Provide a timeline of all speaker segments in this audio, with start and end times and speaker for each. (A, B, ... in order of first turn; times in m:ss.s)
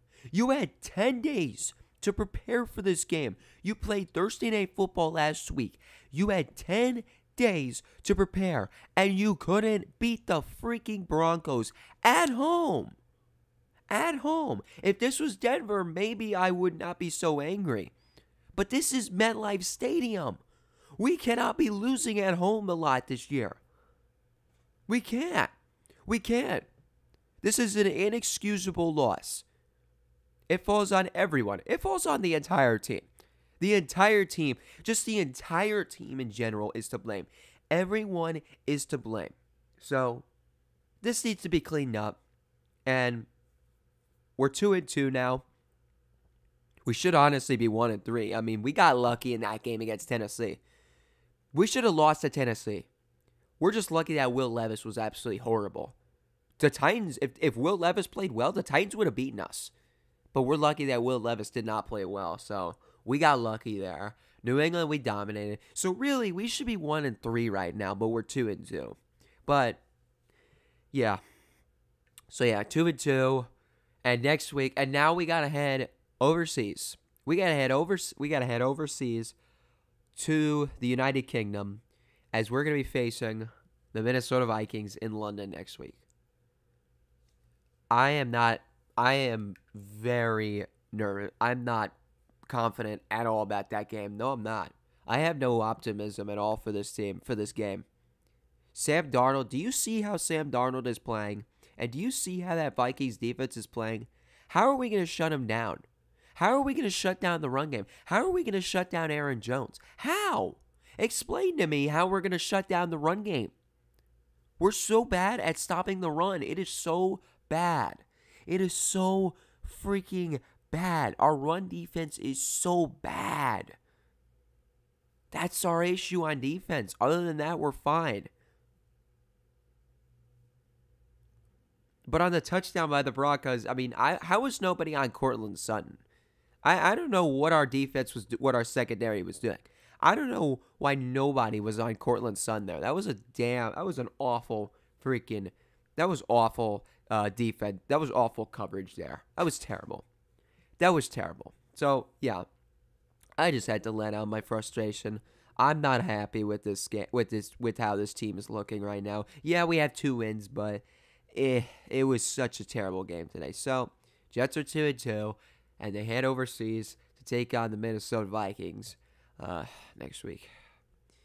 0:00.3-0:12.9 A
0:13.9-0:17.9 A
0:18.5-0:20.4 A
0:21.0-0:23.6 A
0:24.9-0:25.5 A
0:26.0-0:26.7 A
0:27.4-0:29.4 A
0:30.5-0:33.1 A
0:33.6-0:40.3 A
0:41.0-0:42.2 A
0:42.8-0:43.3 A
0:44.4-0:45.4 A
0:46.8-0:50.6 A
0:51.5-0:52.9 A
0:53.6-0:56.0 A
0:56.6-0:59.7 A
1:00.3-1:09.8 A
1:10.9-1:11.2 A
1:12.3-1:13.5 A
1:14.0-1:19.4 A
1:20.2-1:26.0 A
1:27.9-1:31.9 A
1:32.5-1:37.8 A
1:38.7-1:53.5 A
1:54.6-2:03.8 A
2:05.3-2:08.3 A
2:12.1-2:16.0 A
2:16.6-2:30.0 A
2:30.8-2:32.4 A
2:33.4-2:50.5 A